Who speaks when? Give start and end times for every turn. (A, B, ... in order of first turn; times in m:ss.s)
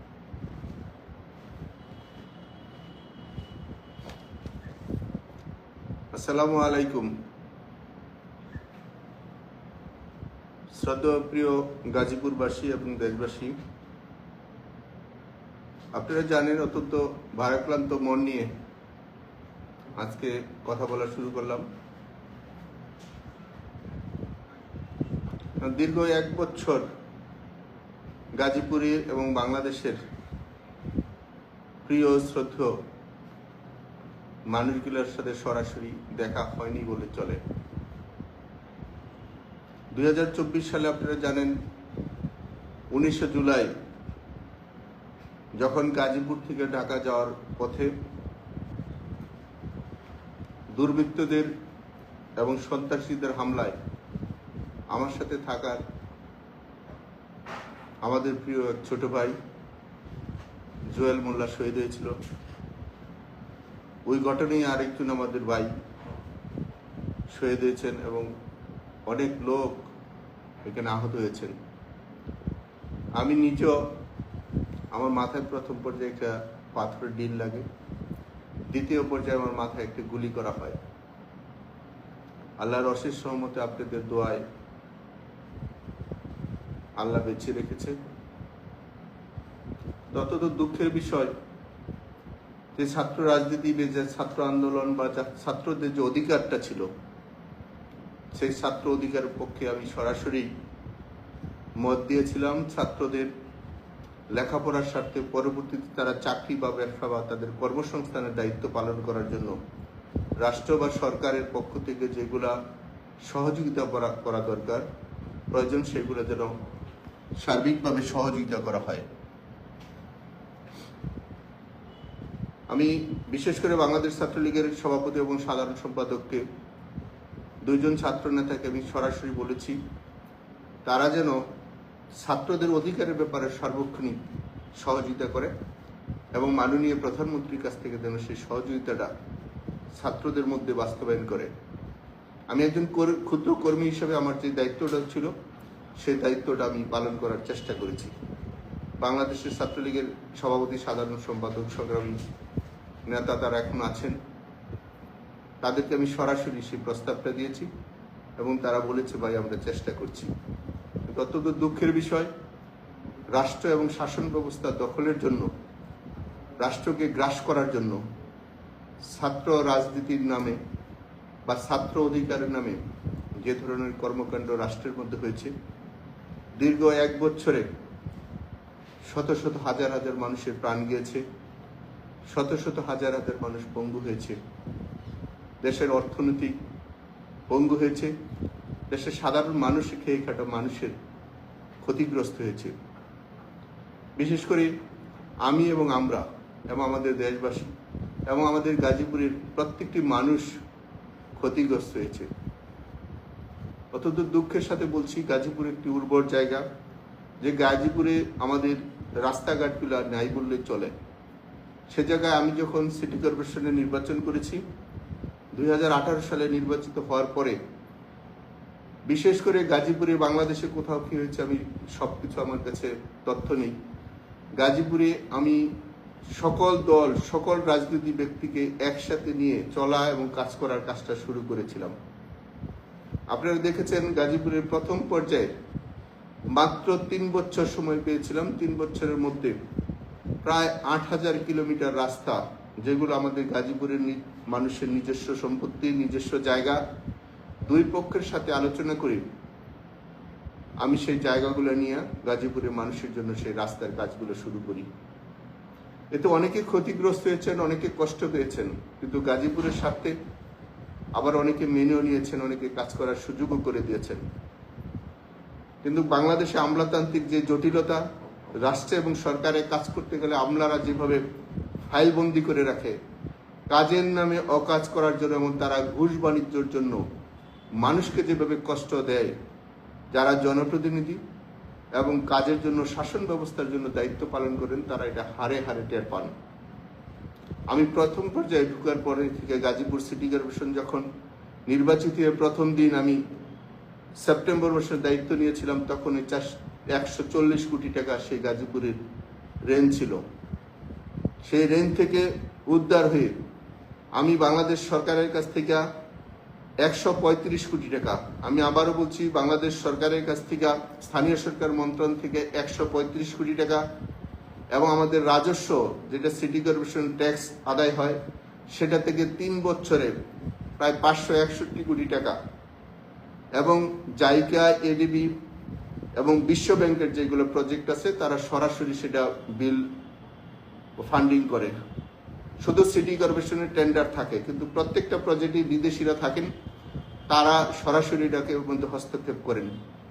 0:06.1-0:07.1 A
0:10.7-0:13.5 A
0:15.9-0:18.5 A
0:20.0-0:21.6 A
0:25.6-0:26.8 A
0:28.4-0:30.0 A
0:31.8-0:32.7 A
0:34.5-0:37.4 A
0:39.9-0:41.5 A
0:42.9-0:43.7 A
0:45.6-0:47.9 A
0:50.7-0:51.5 A
0:52.4-0:53.7 A
0:54.9-0:55.8 A
0:58.0-0:59.4 A
1:00.9-1:02.1 A
1:04.0-1:05.7 A
1:07.3-1:08.3 A
1:09.1-1:09.8 A
1:10.6-1:11.5 A
1:13.2-1:13.8 A
1:14.9-1:17.6 A
1:18.7-1:20.8 A
1:22.6-1:24.4 A
1:27.0-1:28.0 A
1:30.1-1:31.3 A
1:32.8-1:36.9 A
1:38.3-1:40.5 A
1:41.8-1:43.3 A
1:44.3-1:49.5 A
1:50.4-1:52.6 A
1:53.3-1:54.8 A
1:55.5-1:56.5 A
1:57.4-1:59.1 A
2:02.7-2:06.4 A
2:07.6-2:09.8 A
2:10.8-2:11.4 A
2:12.2-2:15.5 A
2:16.4-2:19.1 A
2:20.0-2:21.5 A
2:22.5-2:25.3 A
2:26.0-2:28.1 A
2:29.0-2:32.2 A
2:33.1-2:34.2 A
2:35.6-2:37.7 A
2:38.4-2:40.3 A
2:41.1-2:42.3 A
2:43.3-2:45.5 A
2:46.6-2:48.0 A
2:49.1-2:50.6 A
2:51.4-2:52.8 A
2:53.4-2:55.5 A
2:56.6-2:57.7 A
2:59.1-3:01.2 A
3:02.3-3:04.4 A
3:05.6-3:06.5 A
3:07.5-3:08.1 A
3:08.9-3:10.9 A
3:11.8-3:12.7 A
3:14.2-3:14.7 A
3:15.4-3:17.7 A
3:18.3-3:20.5 A
3:21.4-3:22.3 A
3:23.9-3:26.6 A
3:27.4-3:30.9 A
3:31.9-3:34.6 A
3:35.5-3:37.6 A
3:39.1-3:43.7 A
3:44.6-3:45.7 A
3:46.4-3:51.9 A
3:53.3-3:55.5 A
3:56.5-3:59.6 A
4:00.4-4:06.8 A
4:07.6-4:09.2 A
4:10.8-4:14.9 A
4:16.1-4:20.1 A
4:21.2-4:24.2 A
4:25.8-4:28.0 A
4:28.6-4:31.2 A
4:31.9-4:33.0 A
4:33.7-4:37.0 A
4:37.8-4:39.3 A
4:40.1-4:41.2 A
4:42.0-4:46.3 A
4:47.7-4:51.0 A
4:51.7-4:53.2 A
4:54.2-4:59.0 A
4:59.7-5:00.2 A
5:01.4-5:03.3 A
5:04.2-5:05.8 A
5:06.8-5:13.8 A
5:14.7-5:18.2 A
5:18.7-5:20.2 A
5:20.8-5:22.4 A
5:23.6-5:25.3 A
5:26.2-5:29.8 A
5:31.0-5:31.7 A
5:32.6-5:36.5 A
5:37.3-5:39.7 A